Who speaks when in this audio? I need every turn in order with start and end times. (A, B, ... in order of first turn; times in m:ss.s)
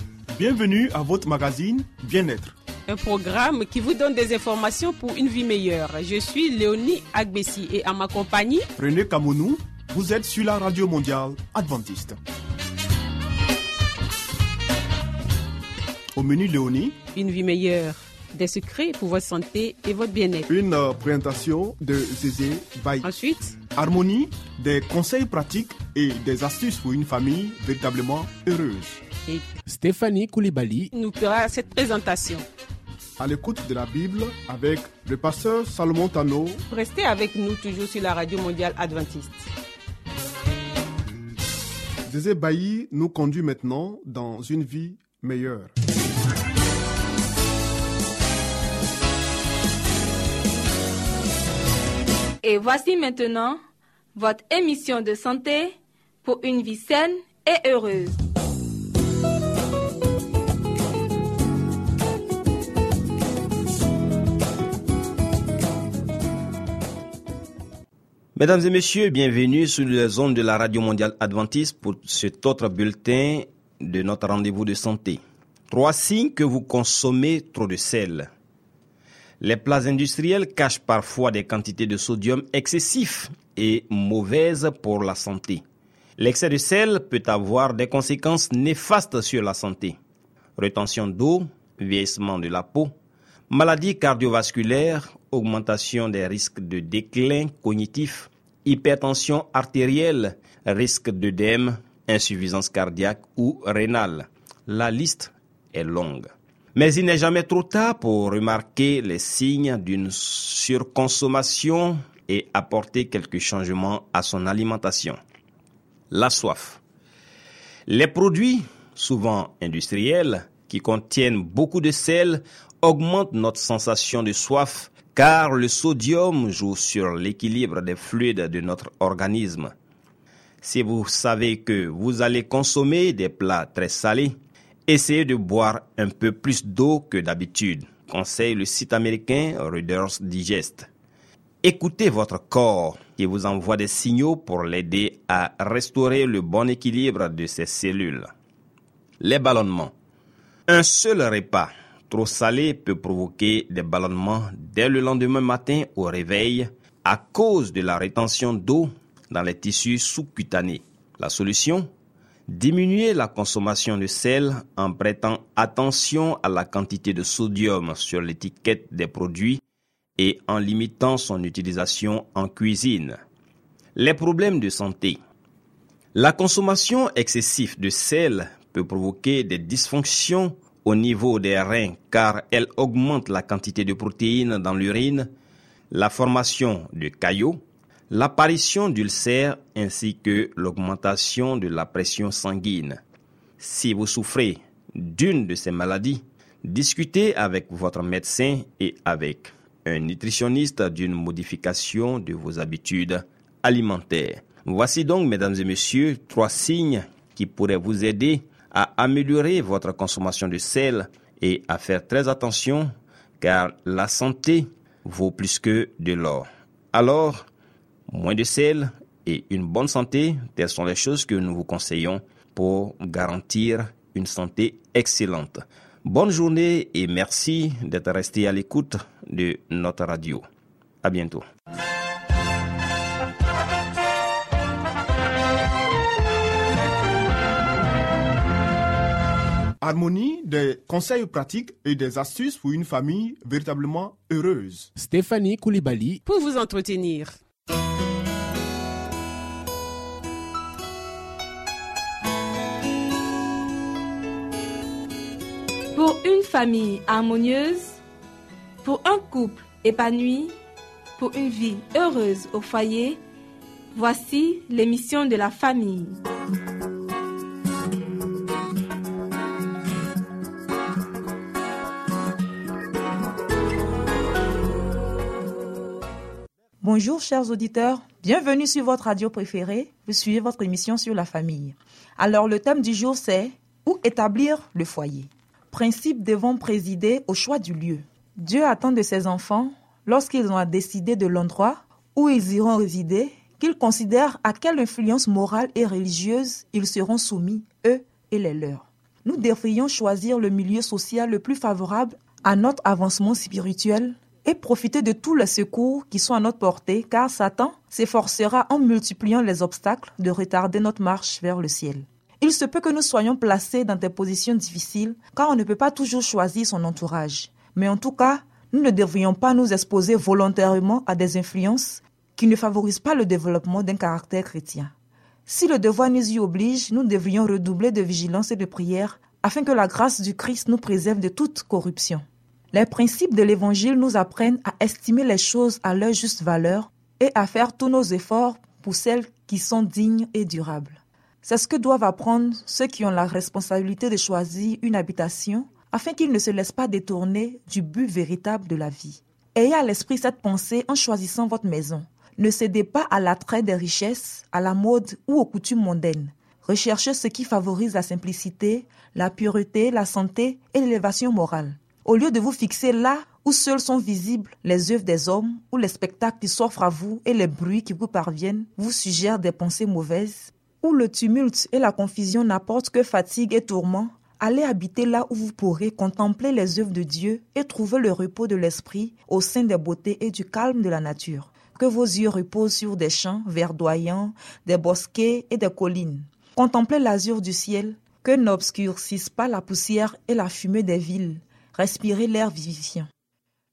0:00.3-0:02.6 A
0:02.9-0:08.7 B
0:08.8-0:12.2 A
0:16.1-0:17.0 A
0:17.1-0:20.5 B
0:20.5-0:23.1 A
0:23.0-0:23.6 B
0:23.6-0:29.0 A
0:29.2-0:29.6 B
0:29.6-0:30.9 C
0:30.9-0:32.4 B
0:33.2-0:36.6 A
0:36.7-0:39.5 B
0:42.0-0:45.7 A
0:52.4-0:53.6 D
0:54.1-0:58.2 D
1:08.4-1:18.3 E
1:19.4-1:25.6 E
1:26.2-1:30.0 E
1:30.6-1:32.9 E
1:33.5-1:55.2 E
1:56.1-1:56.8 E
1:57.9-2:09.7 E
2:10.6-2:20.9 E
2:21.6-2:28.3 E
2:29.2-2:29.9 E
2:30.7-2:41.9 E
2:42.5-2:49.6 E
2:50.2-2:53.2 E
2:53.9-2:55.2 E
2:56.1-3:05.3 E
3:05.9-3:13.0 E
3:13.6-3:37.4 E
3:38.1-3:50.4 E
3:51.0-3:51.4 E
3:59.8-4:04.9 A
4:05.0-4:06.2 C
4:06.2-4:07.4 B
4:15.9-4:18.0 D
4:18.8-4:20.5 D
4:21.2-4:23.2 D
4:23.9-4:26.2 D
4:36.8-5:24.9 F
5:25.5-6:33.1 F